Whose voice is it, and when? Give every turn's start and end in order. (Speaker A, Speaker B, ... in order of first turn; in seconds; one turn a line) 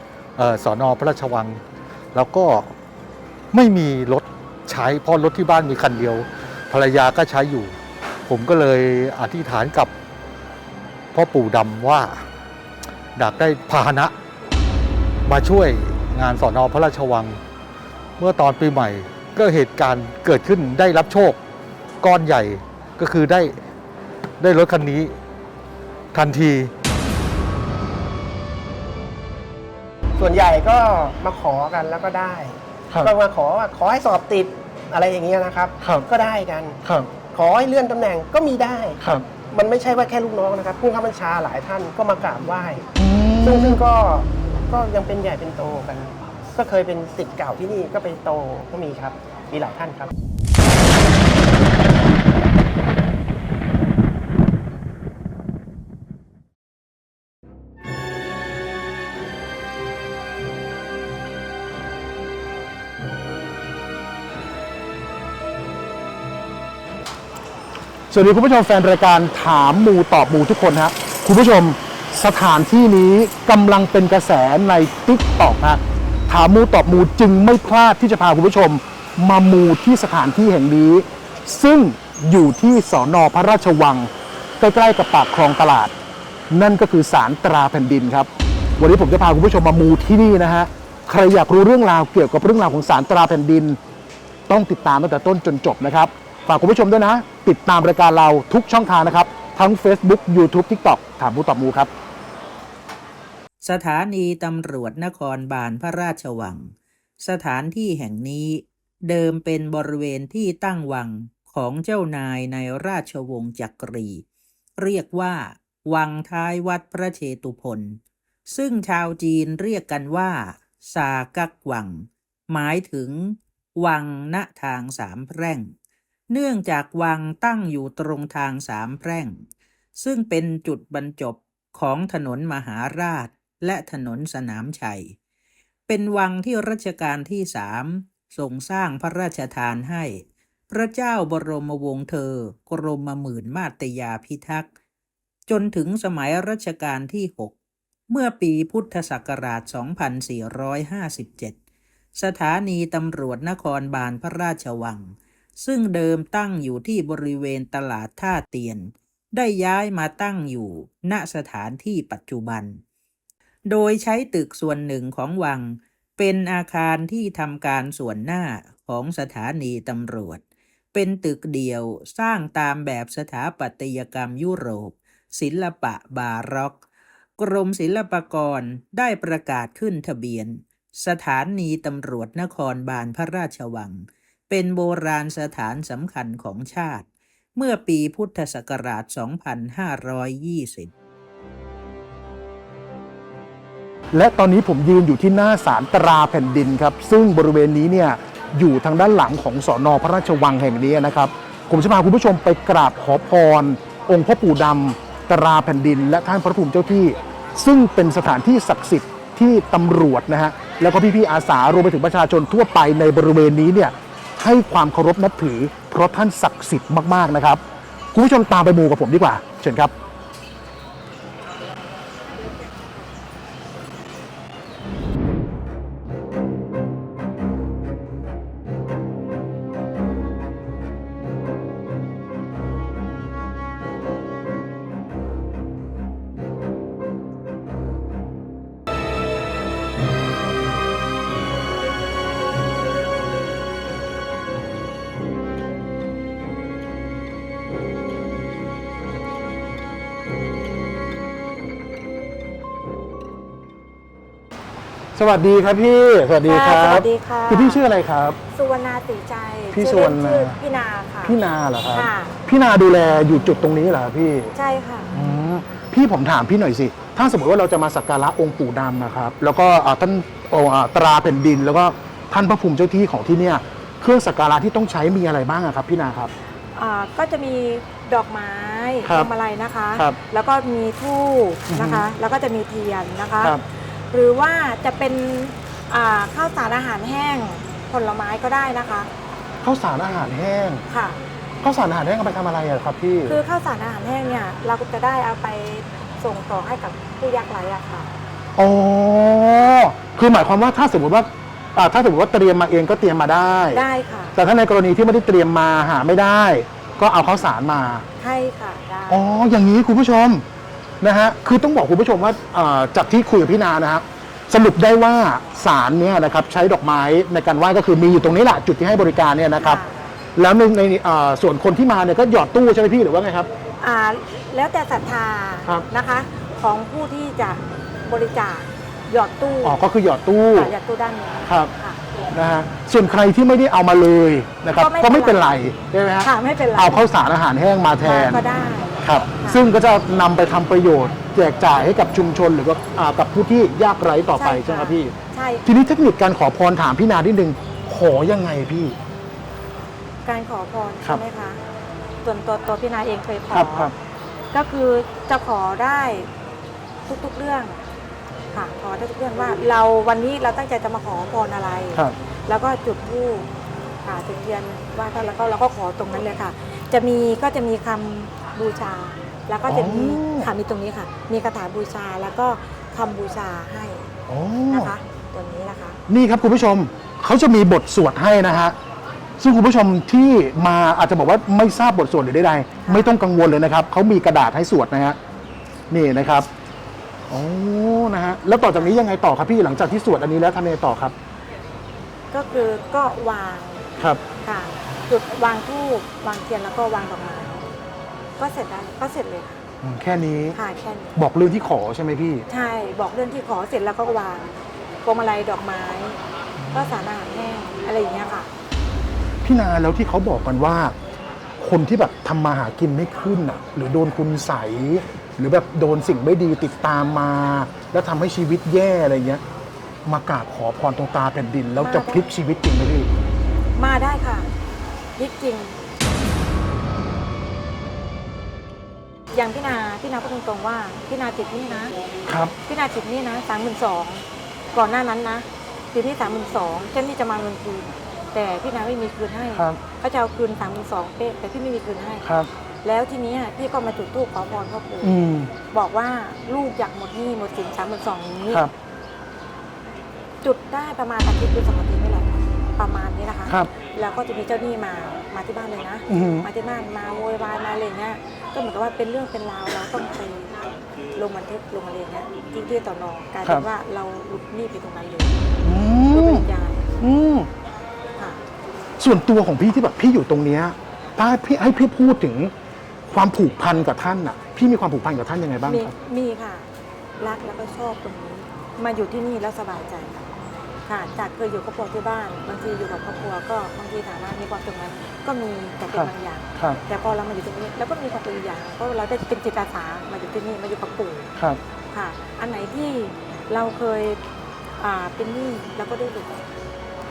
Speaker A: 0.4-1.6
Speaker A: 2.1-2.7
Speaker A: 3.5-9.9
Speaker A: 11.1-12.3
Speaker A: 13.2-14.1
Speaker A: 15.3-17.4
Speaker A: 18.2-21.4
Speaker A: 22.0-23.6
Speaker A: 24.4-25.1
Speaker A: 26.1-26.7
Speaker B: 30.2-42.9
Speaker C: 35.8-36.1
Speaker C: 36.8-37.1
Speaker C: 43.0-43.8
Speaker B: 43.4-50.1
Speaker C: 68.1-86.0
Speaker C: 86.5-93.8
Speaker C: 94.5-101.9
Speaker D: 103.6-114.2
Speaker D: 114.8-118.0
Speaker D: 118.5-125.7
Speaker D: 126.3-129.4
Speaker D: 130.0-135.1
Speaker D: 135.9-144.7
Speaker D: 145.5-147.5
Speaker D: 148.1-151.6
Speaker D: 152.2-162.8
Speaker D: 163.7-170.4
Speaker D: 170.9-176.8
Speaker D: 177.4-190.9
Speaker C: 194.1-219.9
Speaker C: 255.2-258.4
Speaker E: 256.5-257.8
Speaker E: 258.5-261.4
Speaker C: 259.7-260.6
Speaker C: 261.2-264.5
Speaker E: 261.9-262.4
Speaker E: 264.6-265.1
Speaker C: 265.1-276.3
Speaker E: 276.7-289.1
Speaker C: 279.0-279.3
Speaker C: 281.7-282.1
Speaker C: 289.6-290.8
Speaker E: 290.9-291.2
Speaker C: 291.6-293.4
Speaker E: 293.3-298.1
Speaker C: 298.6-303.8
Speaker E: 303.7-304.4
Speaker C: 304.4-308.1
Speaker E: 308.2-309.2
Speaker C: 309.1-310.5
Speaker C: 311.0-319.8
Speaker E: 319.6-319.9
Speaker C: 320.4-323.5
Speaker E: 323.8-329.8
Speaker C: 329.6-330.7
Speaker E: 330.5-332.0
Speaker C: 332.3-338.4
Speaker E: 334.8-335.5
Speaker E: 336.2-337.1
Speaker E: 338.0-339.6
Speaker C: 339.0-345.1
Speaker E: 344.4-345.7
Speaker C: 345.6-349.0
Speaker E: 350.2-351.6
Speaker E: 352.2-353.9
Speaker C: 353.5-353.9
Speaker E: 354.5-356.3
Speaker E: 357.1-357.8
Speaker E: 358.5-363.5
Speaker E: 364.0-374.1
Speaker C: 369.7-370.5
Speaker C: 374.3-374.9
Speaker E: 374.7-376.0
Speaker C: 376.1-378.8
Speaker C: 379.4-385.2
Speaker E: 382.8-383.1
Speaker C: 385.9-386.5
Speaker C: 387.3-391.1
Speaker E: 392.3-393.9
Speaker E: 394.4-397.6
Speaker E: 398.4-399.6
Speaker C: 399.8-400.6
Speaker E: 400.5-401.2
Speaker C: 401.2-402.4
Speaker E: 402.5-404.5
Speaker E: 405.0-406.2
Speaker E: 406.7-408.5
Speaker C: 409.4-410.9
Speaker C: 411.6-419.4
Speaker C: 420.1-423.1
Speaker E: 421.8-422.3
Speaker E: 423.8-424.5
Speaker E: 425.2-425.8
Speaker E: 429.3-431.9
Speaker C: 432.3-432.5
Speaker E: 432.7-442.3
Speaker C: 442.2-442.5
Speaker E: 442.8-445.2
Speaker C: 445.0-445.5
Speaker E: 445.7-448.6
Speaker E: 450.4-465.6
Speaker C: 456.1-456.5
Speaker C: 465.6-466.5
Speaker E: 466.1-466.9
Speaker C: 467.0-467.5
Speaker C: 469.0-472.5
Speaker C: 473.1-475.9
Speaker E: 475.6-480.3
Speaker E: 480.9-491.3
Speaker C: 485.9-486.8
Speaker E: 491.9-494.2
Speaker E: 494.8-496.4